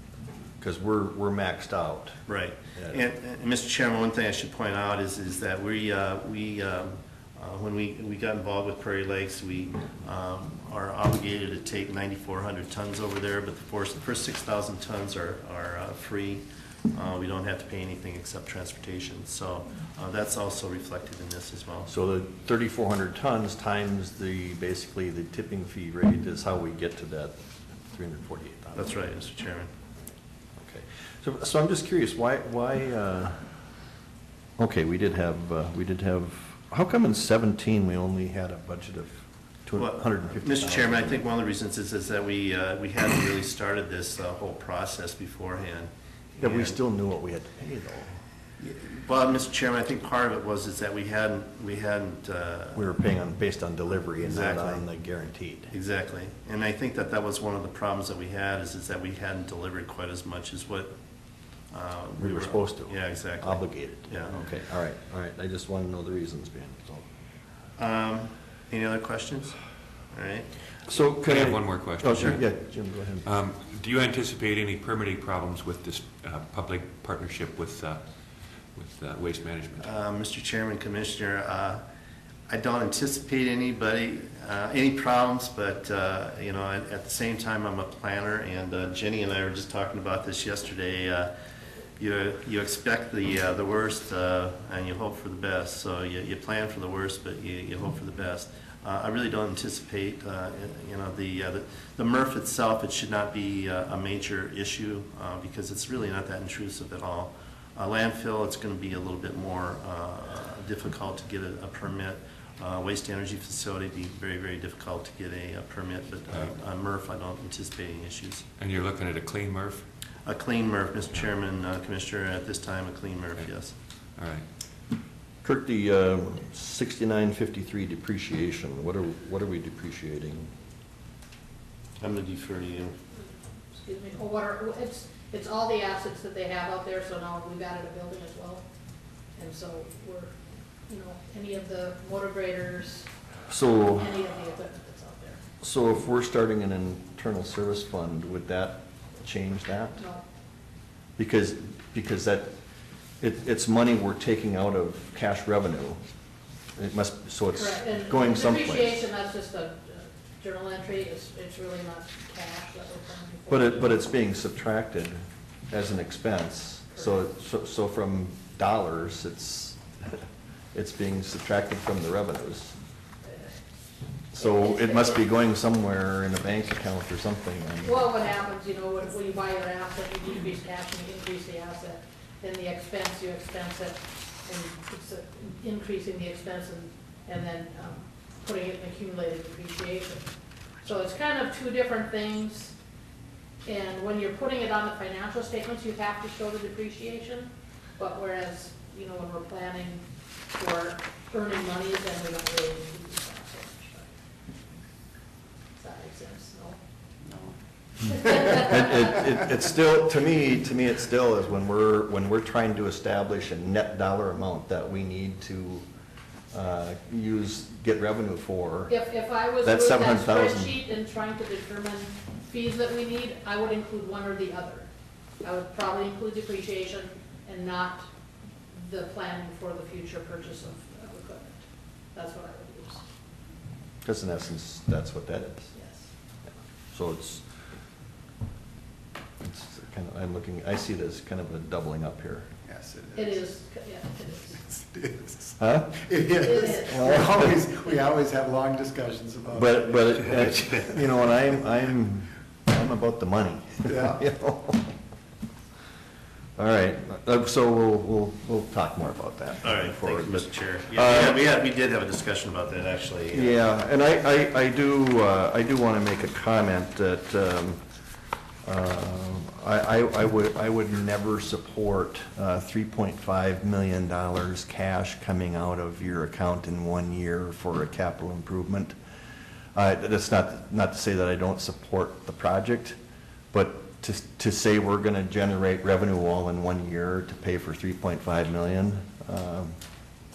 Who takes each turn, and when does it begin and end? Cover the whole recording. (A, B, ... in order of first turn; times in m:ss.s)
0:00.6-0:02.2 A
0:02.3-0:21.9 B
0:21.8-0:29.0 A
0:28.7-0:29.7 B
0:30.6-0:33.4 A
0:34.6-0:41.2 A
0:39.8-0:46.8 B
0:46.4-0:48.2 A
0:48.6-0:52.9 B
0:52.7-0:55.7 A
0:54.2-0:54.8 B
0:55.7-1:00.9 B
1:01.7-1:04.4 B
1:02.2-1:07.0 A
1:07.8-1:09.6 B
1:10.1-1:10.5 B
1:10.9-1:13.2 A
1:11.2-1:12.7 C
1:13.2-1:18.0 C
1:18.7-1:19.9 C
1:19.8-1:21.8 B
1:22.5-1:31.3 B
1:32.0-1:58.4 B
1:58.6-1:59.8 C
2:00.2-2:03.7 B
2:04.2-2:04.4 C
2:05.4-2:10.5 A
2:12.0-2:13.0 B
2:13.7-2:18.6 D
2:19.4-2:20.4 D
2:20.9-2:23.1 D
2:23.5-2:24.2 A
2:23.8-2:25.4 D
2:25.6-2:30.0 A
2:30.0-2:30.2 D
2:31.2-2:32.5 A
2:33.2-2:36.0 A
2:36.8-2:39.0 A
2:37.5-2:44.0 D
2:43.5-2:49.8 A
2:50.7-2:52.7 A
2:54.3-2:58.0 A
2:54.4-2:55.3 D
2:57.8-3:10.3 D
3:10.8-3:12.7 D
3:13.6-3:24.1 D
3:25.8-3:26.8 D
3:28.1-3:28.7 D
3:28.4-3:35.8 A
3:36.5-3:38.9 A
3:38.9-3:44.9 D
3:39.6-3:40.8 A
3:45.4-3:48.1 D
3:48.7-3:51.6 D
3:52.1-3:53.0 D
3:54.0-3:55.7 A
3:55.7-3:56.1 D
3:56.9-3:57.4 A
3:59.4-4:02.5 A
4:02.6-4:03.3 E
4:03.1-4:04.7 D
4:04.6-4:10.3 E
4:05.6-4:06.1 A
4:06.4-4:07.1 D
4:06.8-4:07.5 A
4:07.7-4:08.1 D
4:09.5-4:14.9 A
4:13.9-4:14.2 E
4:16.6-4:21.4 A
4:19.6-4:23.6 B
4:23.3-4:27.8 A
4:28.6-4:38.9 A
4:39.7-4:43.0 A
4:43.5-4:49.8 A